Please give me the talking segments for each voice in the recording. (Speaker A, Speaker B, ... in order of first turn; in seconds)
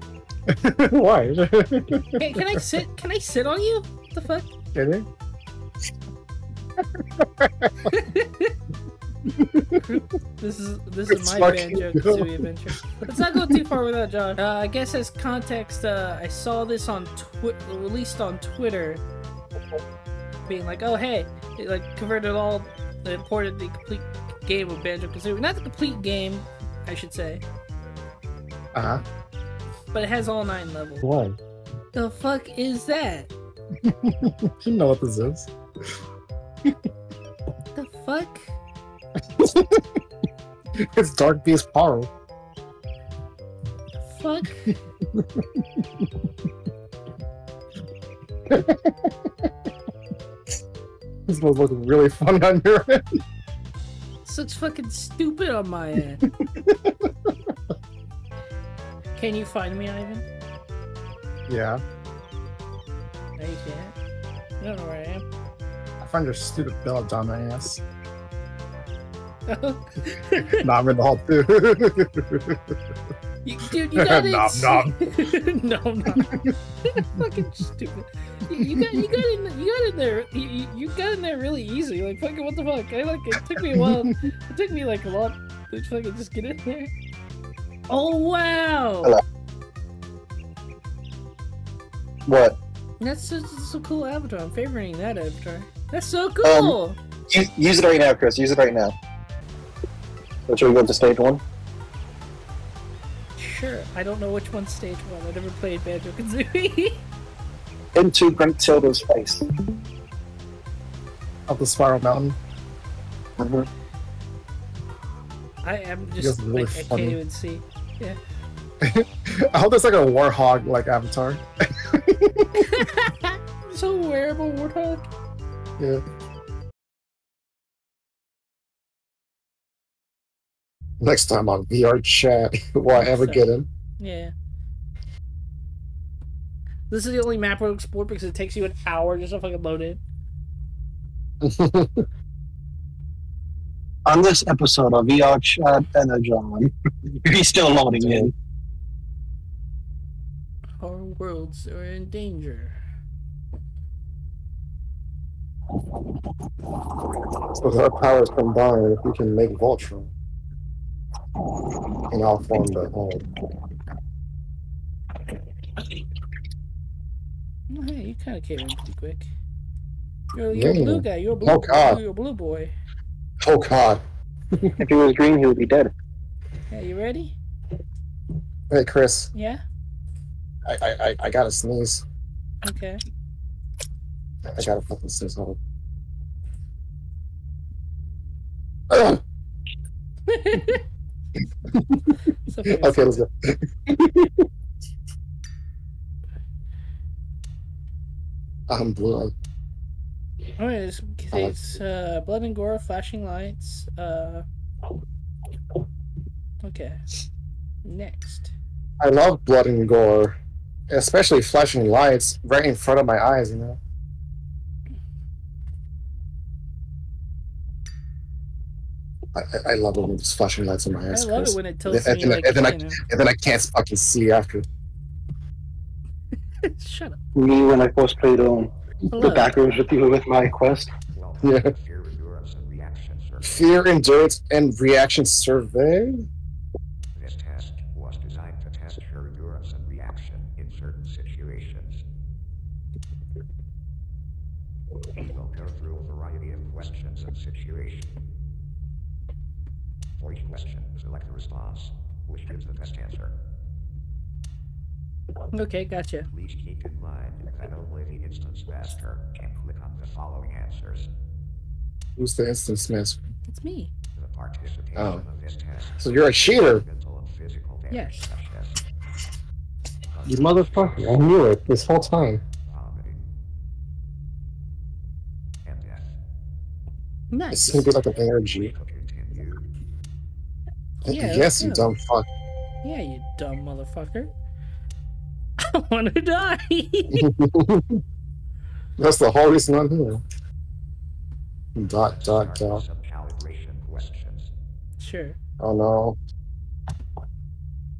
Speaker A: 0.5-2.2, 4.7-5.1, 7.0-7.7, 9.2-9.8, 11.1-12.3, 13.3-13.6, 28.7-29.0, 31.0-31.4, 33.8-35.5, 39.4-39.8, 40.8-42.1, 45.1-45.6, 48.5-49.1, 51.3-53.0, 56.4-57.3, 61.5-61.8, 66.0-67.8, 70.4-72.6, 73.9-74.9, 76.2-76.5, 78.7-79.2, 83.8-84.0, 111.5-112.4, 116.2-117.2, 118.8-122.7, 131.0-133.7, 141.4-142.1, 148.0-148.3, 157.5-160.1, 162.1-163.3, 170.5-172.0, 173.4-174.0, 178.7-179.3, 180.7-182.0, 184.5-185.6, 188.9-189.2, 192.7-194.4, 198.7-199.3, 209.0-210.4, 210.9-213.8, 219.3-224.7, 231.4-231.7, 233.4-236.2, 262.2-263.2, 264.9-265.2, 266.0-266.8, 270.2-272.4, 277.5-278.7, 281.1-282.3, 287.1-288.0, 289.0-290.2, 291.8-292.8, 295.6-296.2
Speaker B: 2.2-4.5, 7.8-8.5, 9.8-19.0, 20.4-27.4, 29.9-31.0, 31.9-33.3, 37.7-38.5, 44.0-44.7, 54.2-56.3, 59.1-60.2, 63.4-63.9, 64.6-65.2, 69.5-70.7, 73.4-76.3, 76.8-86.9, 87.9-89.1, 93.0-97.0, 103.4-107.0, 115.6-118.2, 122.5-125.1, 132.9-133.4, 134.0-134.3, 136.9-140.0, 150.8-152.8, 167.7-169.3, 170.3-172.7, 176.7-177.3, 179.3-179.6, 182.6-183.0, 190.3-190.8, 192.4-193.1, 200.6-204.4, 206.6-207.0, 207.8-208.5, 221.1-223.0, 226.6-227.2, 229.1-229.6, 255.5-256.3, 263.5-263.9, 267.9-268.3, 277.3-277.9, 281.1-281.9, 282.8-284.3, 285.6-287.3, 295.0-295.4
Speaker C: 92.2-92.6, 96.4-96.8, 97.3-99.0, 100.5-101.4, 107.9-109.4, 113.4-113.7, 144.1-148.3, 174.8-175.9, 227.3-230.9
Speaker D: 231.1-233.6, 237.1-242.0, 245.2-248.1, 250.2-253.3, 256.3-261.1, 264.1-268.8, 270.1-271.0, 272.7-273.3, 275.6-276.2, 278.1-279.7, 292.2-294.5